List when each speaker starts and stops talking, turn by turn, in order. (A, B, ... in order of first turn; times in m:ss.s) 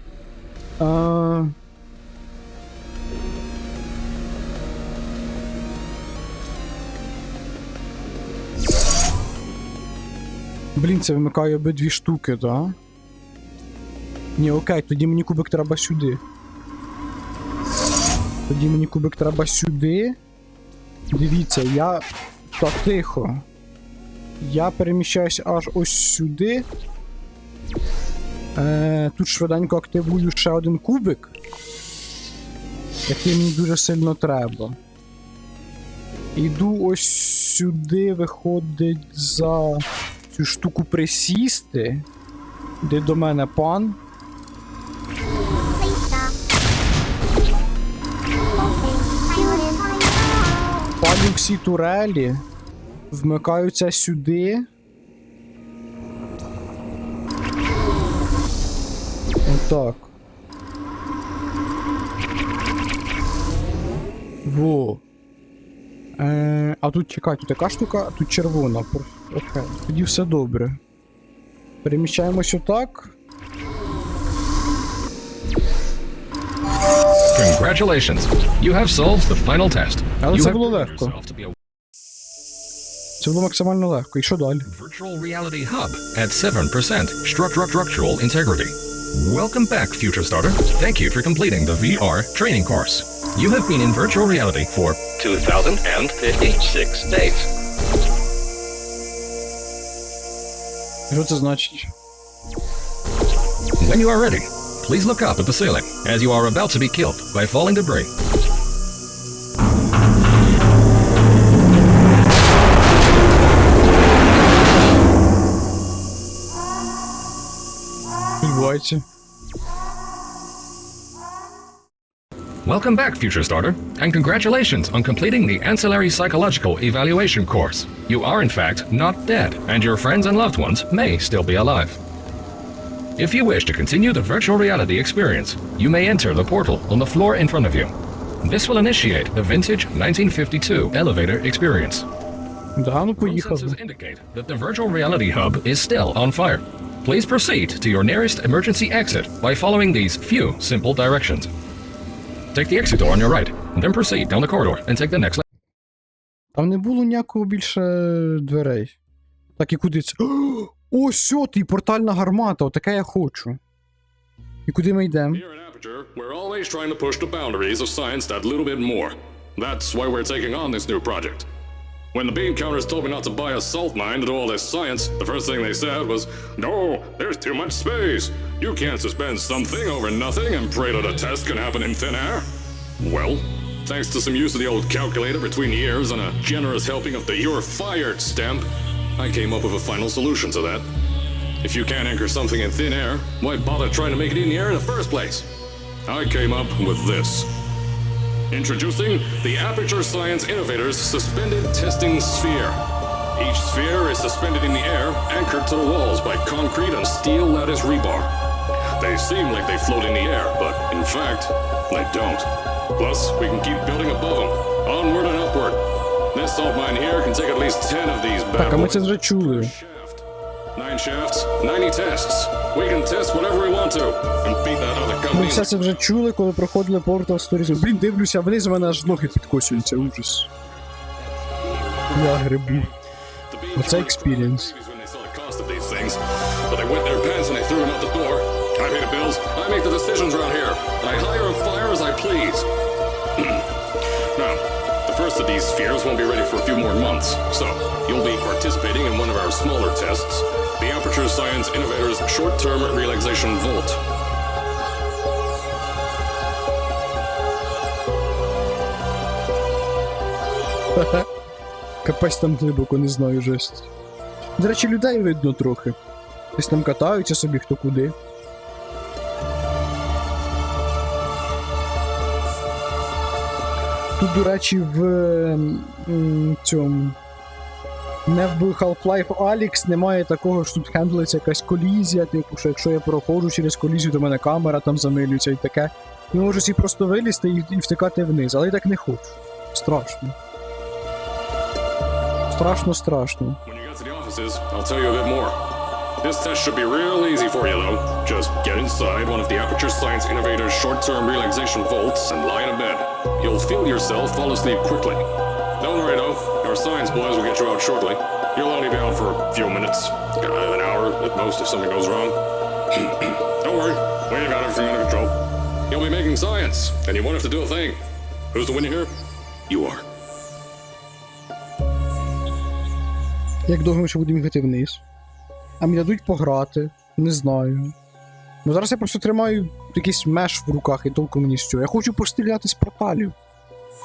0:00.8-0:01.5 A
0:10.8-0:12.8 A
0:14.4-0:16.2 A
0:18.5-0:20.2 A
0:21.1-0:22.0 A
0:22.6-0:23.5 A
0:24.4-0:26.7 A
0:28.6-0:31.4 A
0:33.1-0:34.8 A
0:36.4-0:42.1 A
0:42.8-0:44.0 A
0:50.9-0:52.4 A
0:53.1-0:54.7 A
0:59.5-1:00.1 A
1:04.4-1:05.0 A
1:06.2-1:10.8 A
1:11.8-1:13.2 A
1:17.3-1:21.6 B
1:20.2-1:21.2 A
1:23.2-1:24.7 A
1:24.6-1:37.5 B
1:41.1-1:41.9 A
1:43.8-1:48.1 B
1:58.4-1:59.0 A
2:02.6-2:12.0 B
2:13.2-2:17.9 B
2:18.4-2:22.1 B
2:22.8-2:23.8 A
2:23.2-2:31.5 B
2:32.5-2:35.4 B
2:36.5-2:39.0 A
2:39.6-2:43.6 A
2:44.7-2:45.4 A
2:45.3-2:51.5 C
2:52.1-3:02.5 C
3:03.0-3:08.6 C
3:09.2-3:10.8 C
3:11.6-3:15.4 C
3:16.1-3:17.5 C
3:18.5-3:22.7 C
3:23.4-3:28.3 C
3:29.0-3:35.8 C
3:36.3-3:40.2 C
3:38.6-3:39.7 A
3:40.8-3:45.7 C
3:45.3-3:50.5 A
3:52.1-3:52.9 A
3:53.5-3:56.2 C
3:53.8-3:54.7 A
3:56.7-4:02.6 C
4:04.4-4:14.0 C
4:07.1-4:07.6 B
4:20.9-4:21.3 A
4:22.0-4:23.9 A
4:24.6-4:26.0 A
4:26.6-4:28.2 A
4:34.2-4:37.2 A
4:38.3-4:50.4 A
4:52.5-4:53.6 A
4:53.7-4:55.6 C
4:56.2-5:05.2 C
5:05.8-5:12.4 C
5:12.9-5:15.4 C
5:15.9-5:18.0 C
5:18.5-5:19.1 C
5:19.7-5:20.0 C
5:23.7-5:25.0 A
5:25.8-5:28.0 A
5:28.6-5:33.4 A